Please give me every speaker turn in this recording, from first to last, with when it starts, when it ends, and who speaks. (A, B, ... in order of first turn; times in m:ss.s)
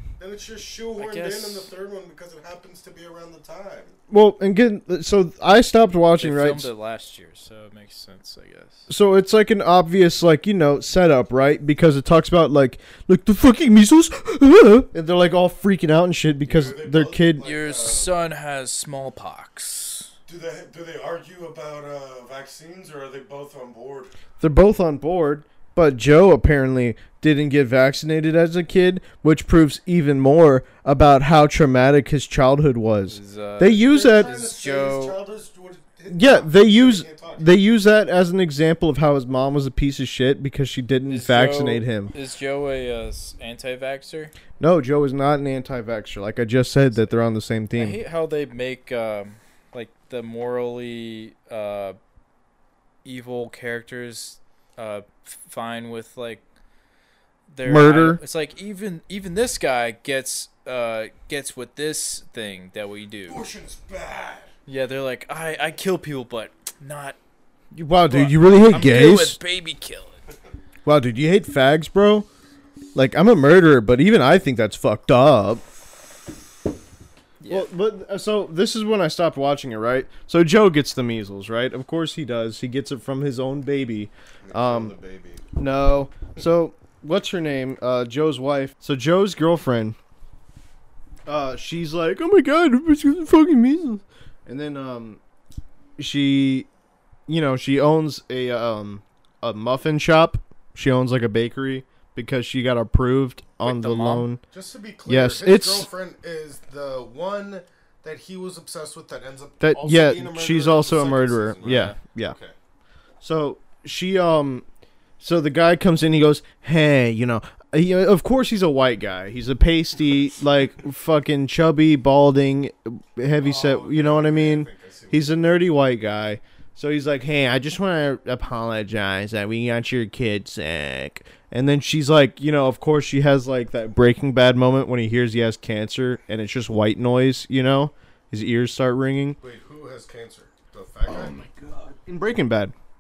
0:00.2-0:04.0 A
0:01.0-0:01.7 B
0:04.1-0:06.7 C
0:06.2-0:08.9 B
0:08.9-0:17.5 C
0:16.4-0:18.1 A
0:17.4-0:20.1 B
0:20.3-0:24.1 A
0:24.4-0:34.3 C
0:33.1-0:35.2 B
0:33.6-0:37.5 A
0:36.1-0:42.1 C
0:41.1-0:44.3 B
0:44.6-0:48.0 C
0:47.7-0:52.0 B
0:53.0-0:56.4 B
0:57.5-1:03.4 B
0:57.6-0:58.2 C
1:03.3-1:04.5 A
1:04.6-1:07.2 B
1:07.7-1:09.4 C
1:08.0-1:10.2 B
1:10.8-1:12.3 C
1:12.9-1:15.6 C
1:17.4-1:17.7 B
1:17.5-1:24.9 C
1:24.4-1:25.4 A
1:25.6-1:30.0 C
1:31.2-1:35.2 C
1:36.0-1:36.7 C
1:37.3-1:44.4 C
1:43.6-1:44.3 B
1:44.5-1:52.5 A
1:45.1-1:45.9 C
1:49.6-1:52.4 C
1:51.6-1:52.0 B
1:53.2-1:54.6 C
1:55.2-2:19.4 C
2:03.4-2:05.3 A
2:19.4-2:21.4 A
2:21.0-2:22.7 C